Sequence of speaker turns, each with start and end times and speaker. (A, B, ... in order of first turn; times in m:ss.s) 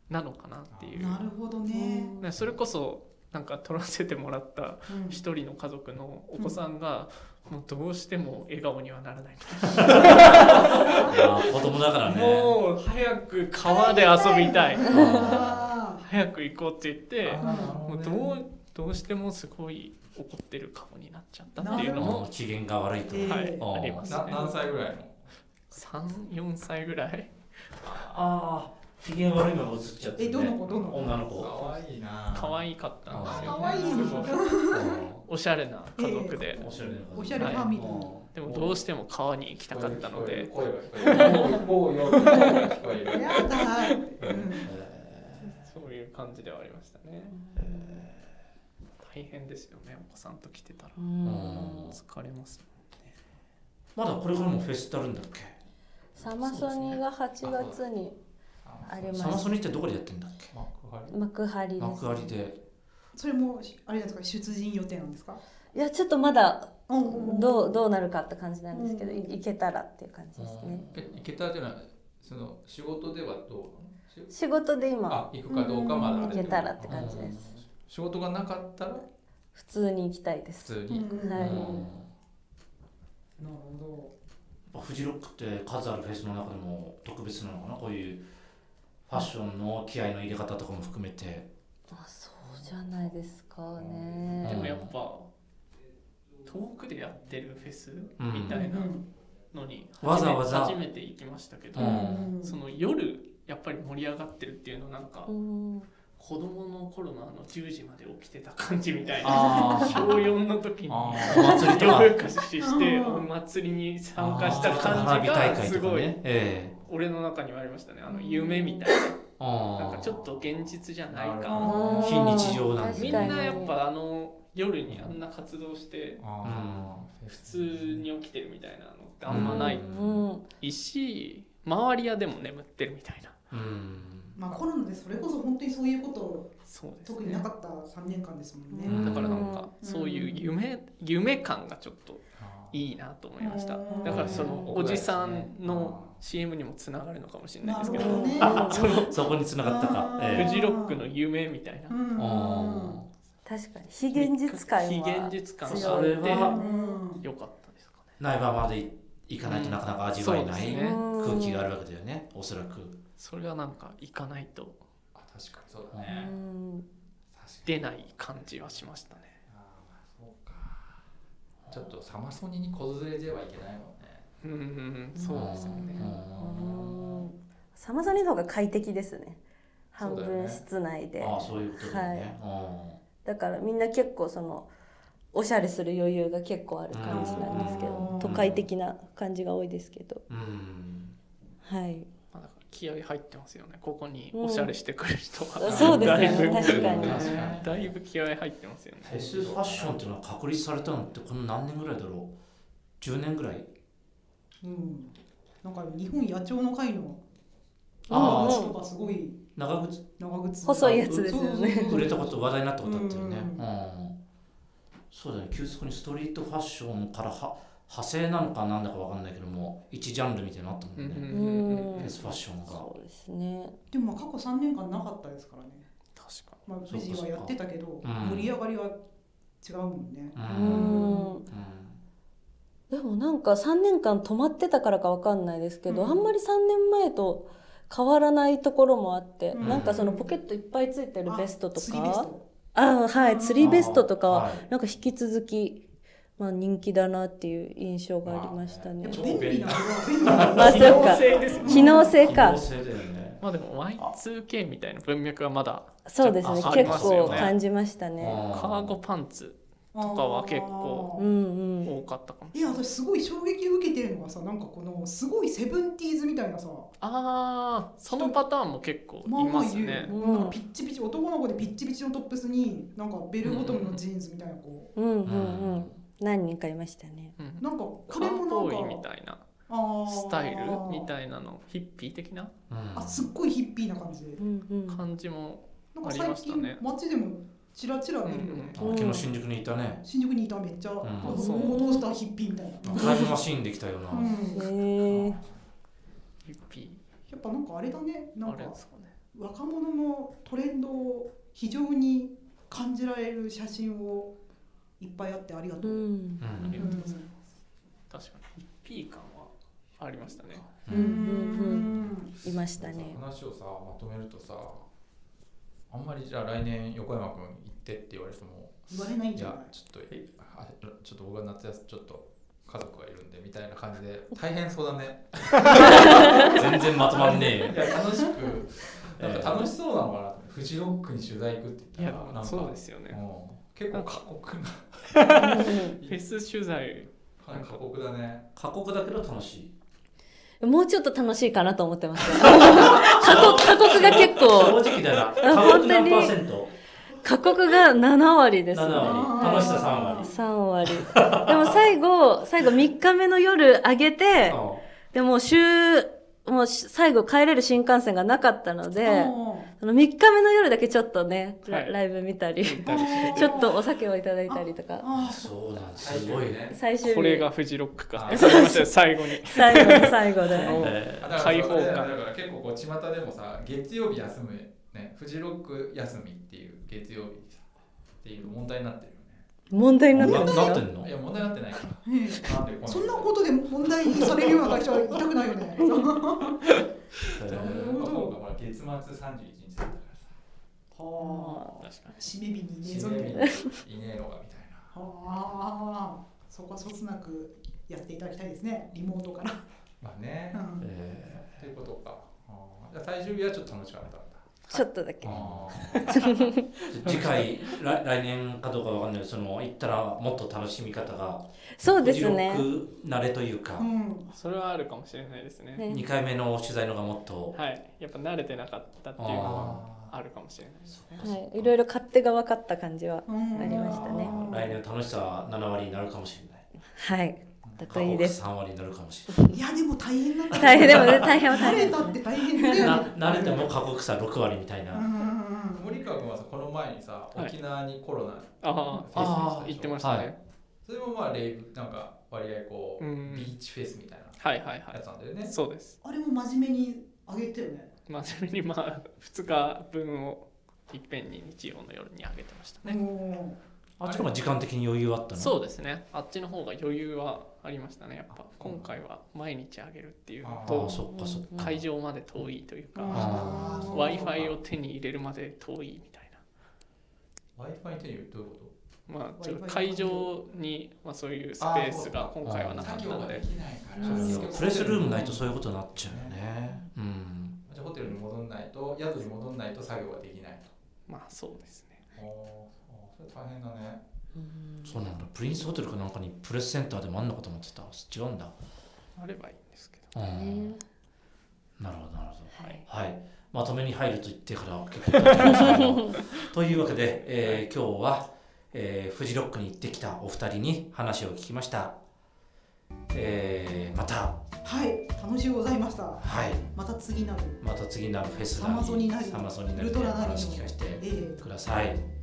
0:00.1-0:01.3 A
0:00.7-0:01.2 B
0:01.0-0:02.2 C
0:01.7-0:02.2 D
0:02.2-0:15.4 A
0:04.9-0:05.2 C
0:09.8-0:12.6 E
0:13.6-0:16.0 C
0:14.8-0:15.7 E
0:16.0-0:22.3 A
0:17.2-0:18.4 B
0:17.4-0:17.8 C
0:21.6-0:22.2 C
0:21.9-0:24.1 E
0:23.1-0:24.4 C
0:23.2-0:24.6 A
0:24.0-0:25.2 B
0:25.7-0:28.2 A
0:27.8-0:31.6 E
0:30.2-0:31.1 C
0:30.8-0:34.5 B
0:32.3-0:36.6 A
0:33.1-0:33.6 E
0:33.3-0:34.9 C
0:34.7-0:35.2 E
0:36.0-0:36.5 C
0:36.5-0:38.7 E
0:36.6-0:37.5 B
0:37.1-0:38.2 C
0:37.3-0:37.7 A
0:38.3-0:41.6 A
0:39.7-0:43.6 B
0:42.2-0:42.7 A
0:43.1-0:44.7 C
0:44.2-0:44.6 B
0:44.6-0:45.6 E
0:45.4-0:47.4 A
0:47.3-0:48.0 D
0:47.5-0:48.3 E
0:49.0-0:51.0 A
0:51.0-0:51.9 D
0:51.2-0:52.0 E
0:51.7-0:53.1 A
0:54.0-0:55.6 E
0:56.2-0:58.1 D
0:56.4-0:57.0 A
0:57.4-0:57.8 B
0:58.6-0:59.5 B
0:58.8-0:59.6 D
0:59.1-1:00.5 E
1:00.5-1:01.2 B
1:01.1-1:02.4 D
1:01.8-1:02.6 E
1:03.1-1:05.4 C
1:05.7-1:10.8 D
1:06.9-1:07.8 C
1:08.7-1:09.3 C
1:10.4-1:10.9 E
1:10.9-1:14.3 B
1:14.3-1:17.5 D
1:15.1-1:19.0 B
1:15.5-1:16.5 C
1:16.9-1:17.4 E
1:19.5-1:21.8 D
1:20.6-1:21.3 B
1:20.9-1:21.8 C
1:21.3-1:22.1 E
1:23.4-1:24.1 C
1:24.7-1:28.3 E
1:29.0-1:31.5 E
1:31.9-1:34.7 D
1:33.8-1:34.1 B
1:34.4-1:34.9 E
1:34.4-1:35.3 A
1:36.4-1:39.0 A
1:38.2-1:38.6 E
1:38.6-1:39.0 C
1:39.5-1:45.3 A
1:40.0-1:40.8 E
1:41.7-1:42.3 E
1:41.8-1:42.1 D
1:41.8-1:42.6 C
1:45.3-1:45.9 D
1:46.2-1:56.2 A
1:49.2-1:50.2 E
1:49.3-1:50.2 B
1:49.4-1:49.8 D
1:50.9-1:51.7 B
1:51.2-1:52.2 E
1:51.4-1:51.7 D
1:52.6-1:53.3 C
1:54.2-1:55.7 B
1:54.2-1:56.8 E
1:56.8-1:59.2 A
1:58.1-1:58.9 D
1:59.4-2:00.2 E
1:59.8-2:06.3 A
2:01.1-2:02.5 B
2:01.5-2:03.7 D
2:02.0-2:03.6 E
2:06.2-2:08.1 B
2:06.4-2:07.0 E
2:07.3-2:09.8 A
2:09.3-2:10.2 E
2:09.3-2:10.4 D
2:10.6-2:13.4 A
2:13.5-2:14.4 E
2:14.4-2:19.1 C
2:16.6-2:17.4 A
2:18.7-2:19.7 D
2:18.8-2:19.5 E
2:18.9-2:29.1 A
2:19.8-2:20.4 C
2:22.4-2:22.8 B
2:23.4-2:24.3 C
2:24.0-2:26.2 B
2:24.0-2:24.5 E
2:24.3-2:24.7 D
2:27.6-2:28.9 C
2:27.8-2:29.1 D
2:28.4-2:30.6 E
2:29.6-2:31.0 C
2:30.3-2:31.9 A
2:31.9-2:33.0 C
2:32.1-2:33.1 E
2:33.4-2:37.0 D
2:34.1-2:36.6 A
2:35.6-2:36.5 E
2:36.3-2:37.2 C
2:37.2-2:38.2 A
2:38.2-2:43.0 E
2:39.4-2:41.0 A
2:40.6-2:41.7 D
2:43.2-2:44.8 A
2:45.1-2:46.3 B
2:46.0-2:46.9 D
2:47.3-2:48.0 B
2:47.6-2:49.4 A
2:49.5-2:51.0 B
2:51.7-2:54.3 B
2:54.4-2:56.1 A
2:55.2-2:59.4 D
2:55.3-2:57.3 E
2:59.9-3:02.3 D
3:00.0-3:00.6 B
3:01.2-3:03.0 E
3:03.2-3:04.7 D
3:05.3-3:10.2 D
3:06.9-3:08.7 E
3:07.1-3:08.1 B
3:07.1-3:08.3 C
3:10.3-3:11.2 E
3:11.6-3:12.1 D
3:12.3-3:19.2 A
3:14.3-3:14.7 D
3:15.6-3:17.4 D
3:15.7-3:17.8 B
3:15.7-3:17.9 E
3:19.0-3:20.0 B
3:19.0-3:22.4 E
3:23.0-3:23.7 E
3:24.6-3:27.2 C
3:28.1-3:28.6 E
3:28.1-3:29.4 C
3:28.1-3:28.8 D
3:29.6-3:30.1 E
3:30.2-3:32.2 C
3:30.6-3:32.1 D
3:30.8-3:34.2 E
3:32.8-3:33.6 C
3:35.1-3:42.9 E
3:41.0-3:42.4 A
3:41.3-3:43.8 D
3:43.9-3:45.9 C
3:46.1-3:46.6 A
3:46.6-3:49.0 C
3:46.9-3:48.5 E
3:49.6-3:51.4 C
3:50.3-3:52.0 E
3:50.4-3:51.5 D
3:52.9-4:05.8 D
3:55.9-3:56.3 C
3:59.5-4:00.3 C
3:59.6-4:00.1 E
4:01.2-4:02.4 C
4:03.2-4:03.7 C
4:03.6-4:04.6 E
4:06.4-4:09.2 D
4:08.2-4:10.9 B
4:09.0-4:12.2 C
4:10.2-4:10.6 E
4:10.5-4:12.6 D
4:10.6-4:12.1 A
4:12.1-4:13.4 E
4:13.4-4:17.6 A
4:16.0-4:18.4 D
4:16.4-4:17.5 E
4:18.2-4:19.0 E
4:18.5-4:21.1 A
4:19.9-4:21.2 C
4:21.2-4:21.9 D
4:21.8-4:22.8 A
4:22.5-4:26.9 C
4:27.0-4:30.1 A
4:28.1-4:28.4 C
4:29.2-4:34.9 C
4:30.1-4:30.6 D
4:33.4-4:34.0 A
4:35.0-4:37.4 D
4:35.2-4:36.0 E
4:37.4-4:39.5 A
4:37.6-4:39.0 C
4:39.7-4:41.1 C
4:40.0-4:42.5 A
4:42.7-4:43.3 E
4:42.9-4:44.4 C
4:44.4-4:45.0 D
4:44.9-4:46.8 A
4:45.9-4:48.9 C
4:48.2-4:48.8 A
4:48.8-4:49.3 D
4:48.8-4:50.0 E
4:50.0-4:53.3 C
4:51.0-4:51.4 E
4:51.2-4:51.8 A
4:51.2-4:52.1 D
4:52.8-4:54.4 E
4:54.1-4:54.7 C
4:54.5-4:55.4 D
4:55.0-4:55.5 B
4:56.4-4:57.0 A
4:57.3-4:58.8 C
4:58.4-4:59.1 A
4:59.3-5:04.3 C
5:05.0-5:06.1 C
5:05.8-5:06.4 D
5:06.4-5:06.9 E
5:06.6-5:07.3 A
5:06.8-5:07.3 C
5:08.1-5:10.8 A
5:10.8-5:11.2 E
5:10.8-5:12.4 C
5:10.9-5:13.2 D
5:12.8-5:14.9 B
5:15.9-5:36.2 B
5:18.9-5:19.7 C
5:25.7-5:27.9 E
5:29.2-5:29.7 E
5:32.0-5:33.2 A
5:33.9-5:34.2 A
5:35.1-5:37.8 A
5:35.4-5:36.0 D
5:37.4-5:38.5 B
5:38.5-5:39.7 E
5:40.6-5:46.4 D
5:42.8-5:46.7 E
5:43.1-5:44.2 A
5:47.2-6:05.0 D
5:48.7-5:50.3 E
5:49.0-5:50.3 C
5:50.9-5:51.8 E
5:54.4-5:54.8 E
5:59.0-5:59.7 C
6:01.6-6:01.9 A
6:02.6-6:03.7 A
6:02.8-6:03.8 C
6:04.5-6:05.5 C
6:05.1-6:06.6 E
6:05.9-6:06.8 B
6:06.7-6:07.5 D
6:07.0-6:12.1 A
6:08.1-6:08.7 B
6:08.3-6:10.8 D
6:10.4-6:11.4 E
6:10.8-6:17.7 B
6:18.2-6:19.4 B
6:19.7-6:20.8 D
6:20.1-6:21.1 E
6:20.2-6:23.5 B
6:22.0-6:26.8 C
6:24.0-6:24.8 B
6:27.2-6:30.3 B
6:27.3-6:28.0 E
6:27.5-6:28.4 C
6:30.9-6:33.5 C
6:31.2-6:32.2 A
6:32.8-6:34.9 B
6:33.3-6:33.6 D
6:34.9-6:39.6 C
6:40.0-6:40.6 B
6:40.5-6:40.9 C
6:40.8-6:41.6 E
6:41.5-6:44.4 B
6:44.7-6:45.4 D
6:45.2-6:45.9 E
6:45.2-6:46.3 B
6:45.9-6:46.7 D
6:46.0-6:46.5 A
6:46.9-6:53.9 E
6:47.0-6:47.4 B
6:51.8-6:52.7 D
6:53.8-6:54.3 C
6:54.3-6:55.9 A
6:55.8-6:56.0 D
6:55.9-6:57.6 E
6:57.5-7:01.2 A
6:59.2-6:59.8 E
6:59.4-7:00.1 B
7:00.9-7:01.7 E
7:01.2-7:04.3 D
7:03.3-7:04.8 C
7:03.6-7:06.6 E
7:07.0-7:08.3 D
7:07.9-7:09.4 E
7:09.5-7:13.7 C
7:10.5-7:12.9 D
7:10.6-7:11.8 E
7:12.6-7:15.0 E
7:14.9-7:15.9 C
7:15.7-7:20.0 B
7:18.6-7:20.4 A
7:19.1-7:20.3 E
7:20.8-7:25.5 B
7:23.0-7:23.5 A
7:24.4-7:26.0 A
7:26.0-7:27.9 C
7:28.1-7:33.0 A
7:32.8-7:33.6 C
7:34.0-7:35.6 E
7:34.0-7:34.3 B
7:35.3-7:46.4 A
7:38.3-7:38.9 B
7:40.4-7:41.0 B
7:40.6-7:41.8 E
7:41.1-7:41.4 D
7:42.9-7:44.3 C
7:43.1-7:44.4 E
7:43.1-7:44.5 B
7:47.6-7:48.7 B
7:49.1-7:53.5 A
7:49.4-7:50.3 C
7:51.6-7:56.4 B
7:52.4-7:53.0 E
7:54.0-7:54.5 A
7:54.0-7:57.6 E
7:57.6-8:00.7 B
8:01.1-8:02.0 A
8:02.1-8:04.0 B
8:04.4-8:04.9 D
8:04.8-8:08.5 E
8:09.2-8:10.1 A
8:10.1-8:10.8 E
8:10.3-8:10.8 D
8:11.8-8:22.0 E
8:15.5-8:15.8 A
8:16.7-8:17.6 A
8:23.1-8:24.4 E
8:24.6-8:27.6 C
8:26.2-8:26.6 E
8:27.6-8:32.0 E
8:28.6-8:31.4 C